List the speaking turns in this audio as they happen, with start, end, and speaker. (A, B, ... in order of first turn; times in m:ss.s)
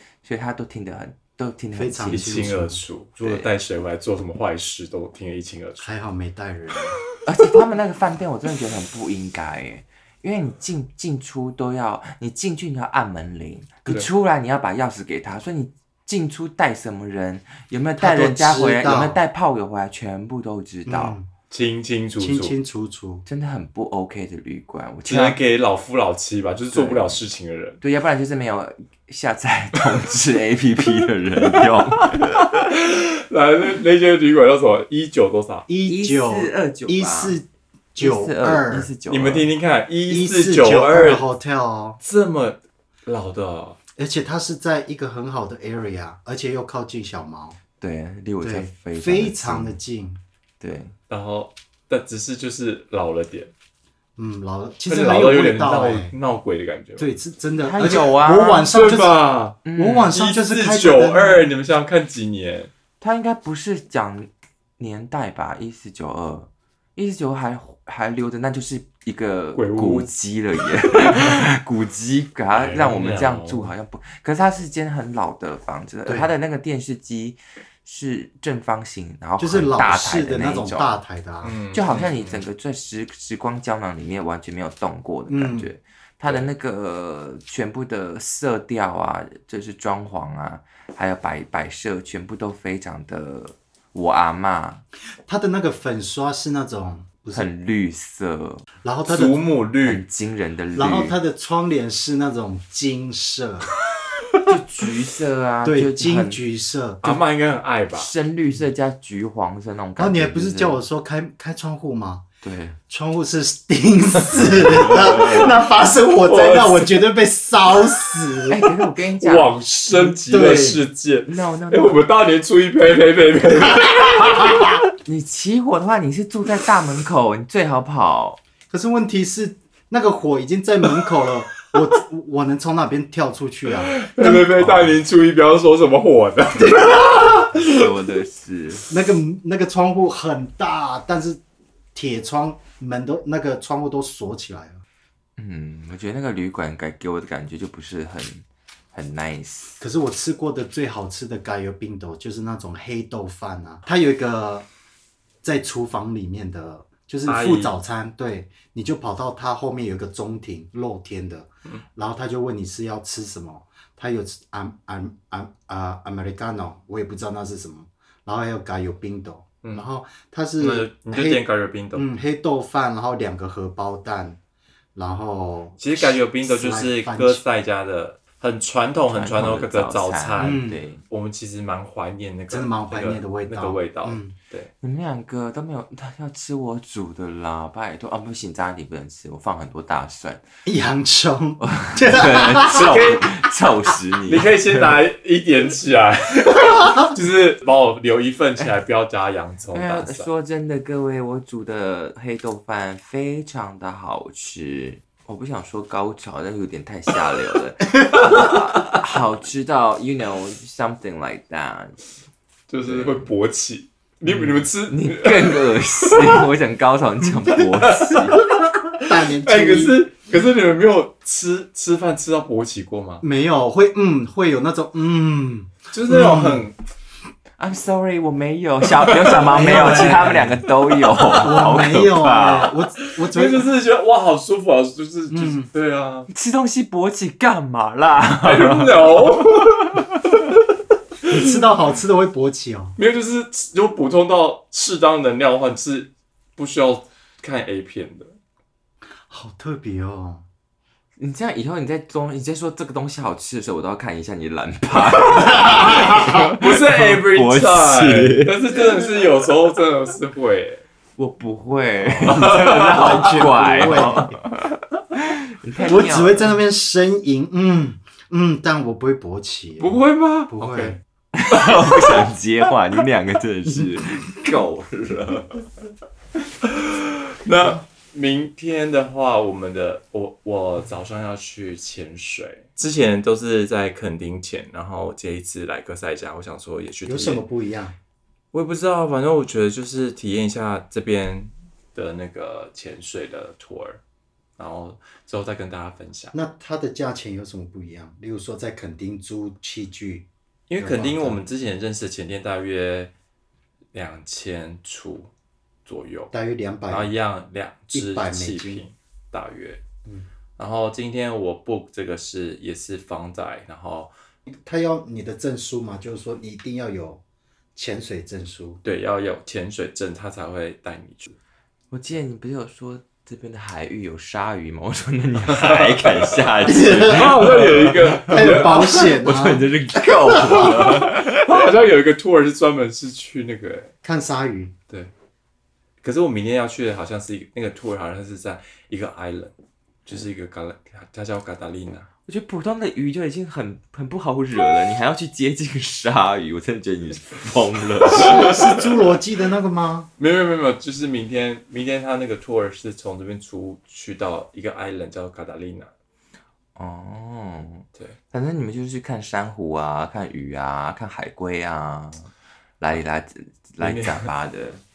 0:00.2-0:02.5 A
0:01.7-0:02.8 B
0:02.1-0:05.9 C
0:03.2-0:03.5 A
0:05.8-0:07.0 B
0:07.2-0:21.2 A
0:18.0-0:19.2 B
0:20.9-0:21.3 B
0:21.5-0:22.6 C
0:22.2-0:23.3 B
0:23.3-0:25.4 A
0:25.0-0:27.8 C
0:26.7-0:27.2 A
0:27.8-0:32.5 A
0:31.8-0:35.7 C
0:35.7-0:38.9 B
0:35.8-0:37.4 A
0:38.0-0:39.5 A
0:39.1-0:41.3 C
0:40.1-0:42.0 B
0:42.0-0:43.8 C
0:44.0-0:47.6 B
0:47.8-0:49.8 A
0:48.4-0:50.2 B
0:50.6-0:50.9 A
0:51.1-0:53.5 C
0:54.2-0:56.1 B
0:54.9-0:57.1 C
0:57.0-0:59.2 B
0:57.6-0:58.7 A
0:58.7-0:59.6 C
0:59.6-1:00.2 A
0:59.8-1:01.5 B
1:00.1-1:02.7 C
1:03.0-1:21.0 A
1:09.6-1:10.1 C
1:11.0-1:11.3 C
1:12.5-1:13.7 C
1:16.0-1:16.3 B
1:19.4-1:21.6 B
1:21.4-1:22.4 C
1:21.7-1:34.8 A
1:25.3-1:25.7 B
1:35.2-1:37.5 B
1:37.3-1:38.6 A
1:38.8-1:39.4 B
1:39.1-1:40.0 C
1:39.8-1:41.2 A
1:40.7-1:43.7 B
1:44.5-1:46.4 A
1:45.6-1:47.1 B
1:47.0-1:48.1 C
1:47.9-1:50.8 A
1:50.0-1:52.2 B
1:52.4-1:52.8 A
1:52.9-1:58.6 B
1:54.8-1:57.1 C
1:58.5-1:59.5 A
1:59.2-2:04.8 C
1:59.9-2:00.8 B
2:01.3-2:02.0 A
2:05.0-2:08.4 A
2:08.7-2:15.0 B
2:13.8-2:17.9 C
2:17.5-2:18.8 A
2:18.9-2:21.4 B
2:22.0-2:24.8 B
2:25.4-2:29.8 A
2:29.8-2:34.7 B
2:35.4-2:54.4 B
2:37.2-2:37.8 C
2:50.6-2:52.1 C
2:55.0-2:55.8 B
2:55.8-3:04.7 C
2:56.4-2:57.4 B
2:59.1-3:01.0 A
3:00.4-3:00.8 B
3:02.5-3:04.4 B
3:04.8-3:10.4 A
3:10.6-3:13.5 B
3:11.6-3:15.0 A
3:14.3-3:20.3 C
3:19.7-3:32.0 A
3:28.1-3:29.0 C
3:32.7-3:36.5 C
3:32.8-3:33.2 A
3:34.2-3:38.4 A
3:37.8-3:43.2 C
3:39.1-3:40.0 B
3:43.2-3:46.6 B
3:45.9-3:46.8 C
3:47.6-3:52.7 A
3:49.0-3:51.6 C
3:49.5-3:50.6 B
3:51.4-3:53.7 B
3:53.1-3:56.3 C
3:55.3-3:55.7 B
3:56.3-4:00.1 A
3:58.4-4:00.4 C
4:01.3-4:03.0 B
4:03.0-4:08.4 C
4:09.3-4:10.4 B
4:11.2-4:18.5 A
4:15.4-4:20.8 C
4:21.2-4:26.6 A
4:22.1-4:24.1 C
4:22.5-4:24.4 B
4:25.9-4:31.0 B
4:29.8-4:31.0 C
4:31.4-4:35.7 A
4:31.5-4:32.3 C
4:36.6-4:47.4 C
4:47.0-4:48.0 B
4:48.5-4:54.0 C
4:54.6-4:56.3 C
4:56.3-5:00.3 B
5:00.7-5:03.1 C
5:00.8-5:01.4 B
5:03.9-5:05.3 C
5:05.9-5:06.3 C
5:06.3-5:07.1 B
5:06.9-5:09.8 C
5:07.9-5:08.8 B
5:10.6-5:14.1 C
5:14.5-5:17.2 B
5:17.8-5:18.8 B
5:18.8-5:21.4 C
5:21.9-5:31.8 A
5:25.6-5:29.1 C
5:26.6-5:27.3 B
5:28.3-5:29.7 B
5:30.6-5:33.9 C
5:34.0-5:34.8 B
5:36.0-5:39.5 C
5:40.1-5:42.1 C
5:42.3-5:48.7 A
5:48.0-5:49.1 C
5:48.3-5:50.1 B
5:50.2-5:55.9 C
5:56.8-6:02.3 A
6:02.8-6:04.8 A
6:03.8-6:04.3 C